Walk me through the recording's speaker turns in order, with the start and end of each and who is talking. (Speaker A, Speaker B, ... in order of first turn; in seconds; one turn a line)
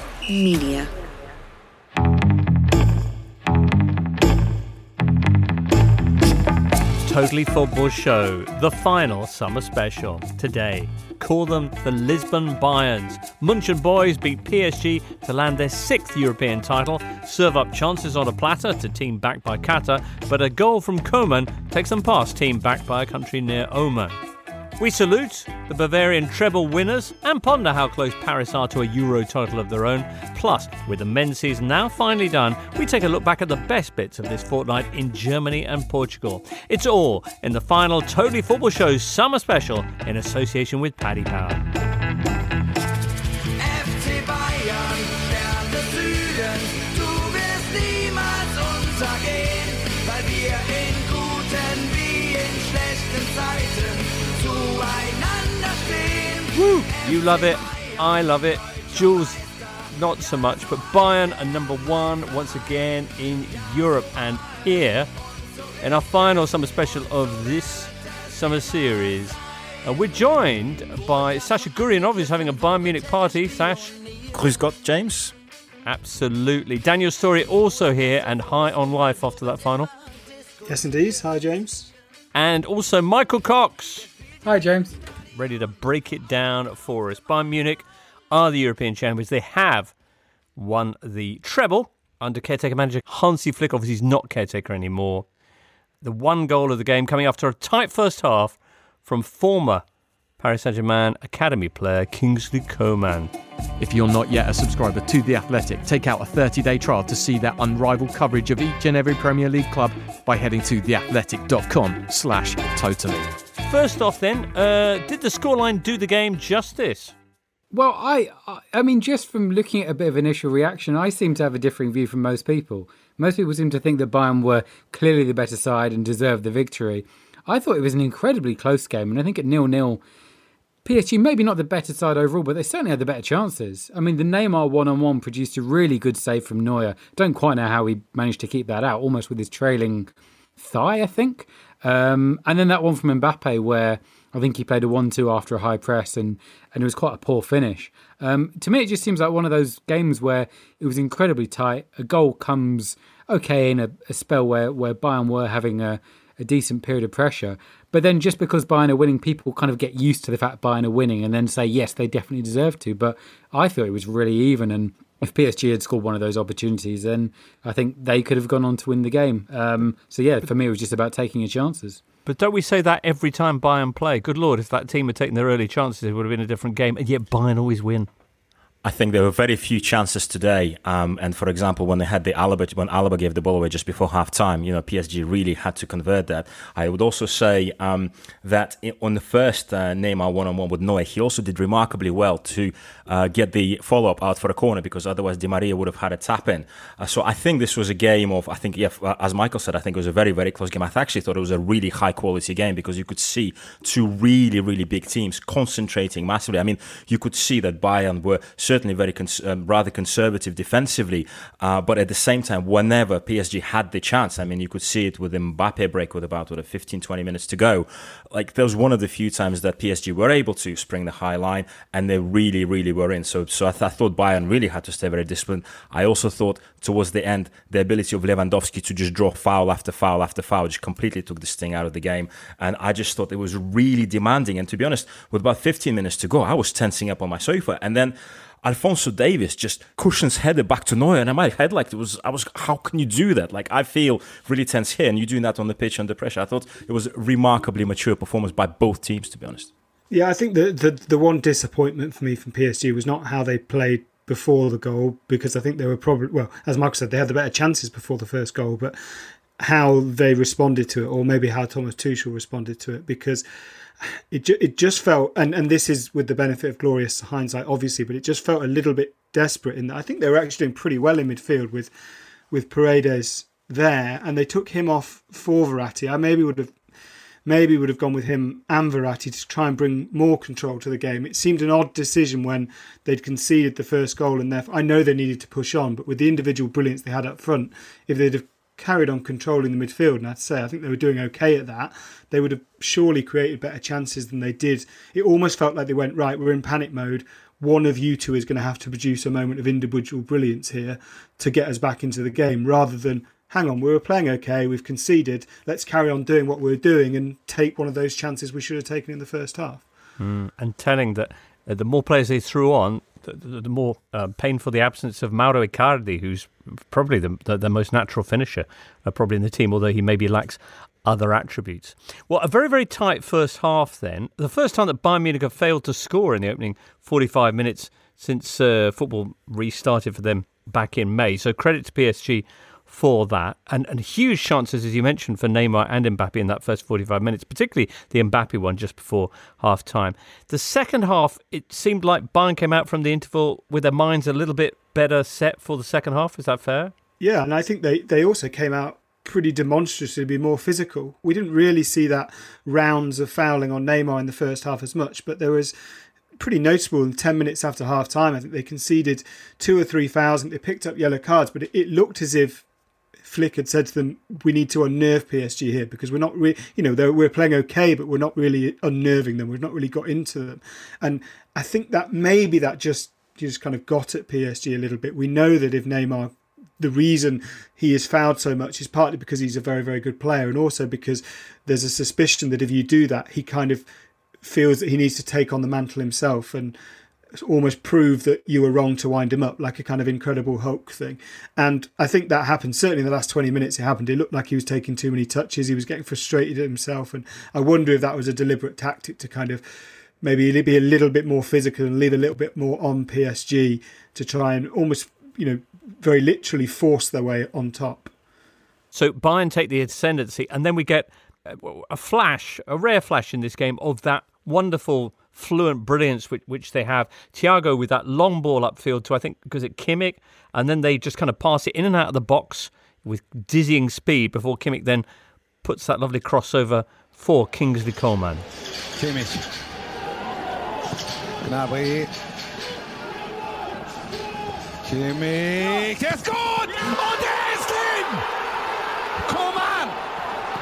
Speaker A: 0.3-0.9
Speaker B: 7.0-24.1
Speaker B: 24.8-41.6
Speaker A: 43.6-58.8
Speaker B: 56.5-65.1
Speaker B: 65.8-74.0
Speaker C: 74.3-75.3
Speaker B: 75.8-79.9
Speaker D: 80.6-81.9
Speaker B: 82.3-84.1
Speaker E: 84.4-85.0
Speaker B: 85.3-89.9
Speaker B: 90.5-95.2
Speaker B: 96.0-99.8
Speaker B: 100.4-103.3
Speaker F: 103.8-113.3
Speaker B: 113.6-117.1
Speaker E: 117.7-130.0
Speaker E: 130.8-172.0
Speaker B: 172.2-178.1
Speaker C: 178.8-249.7
Speaker D: 250.1-258.9
Speaker D: 259.6-263.4
Speaker D: 264.0-271.9
Speaker D: 272.5-276.8
Speaker D: 277.4-309.8
Speaker B: 310.2-346.9
Speaker D: 347.2-355.7
Speaker D: 356.4-362.6
Speaker D: 363.2-383.8
Speaker D: 384.4-386.7
Speaker D: 387.4-399.6
Speaker D: 400.2-408.1
Speaker B: 408.9-425.1
Speaker B: 425.6-428.4
Speaker G: 429.0-429.4
Speaker G: 431.4-432.1
Speaker G: 434.9-438.2
Speaker G: 439.2-439.9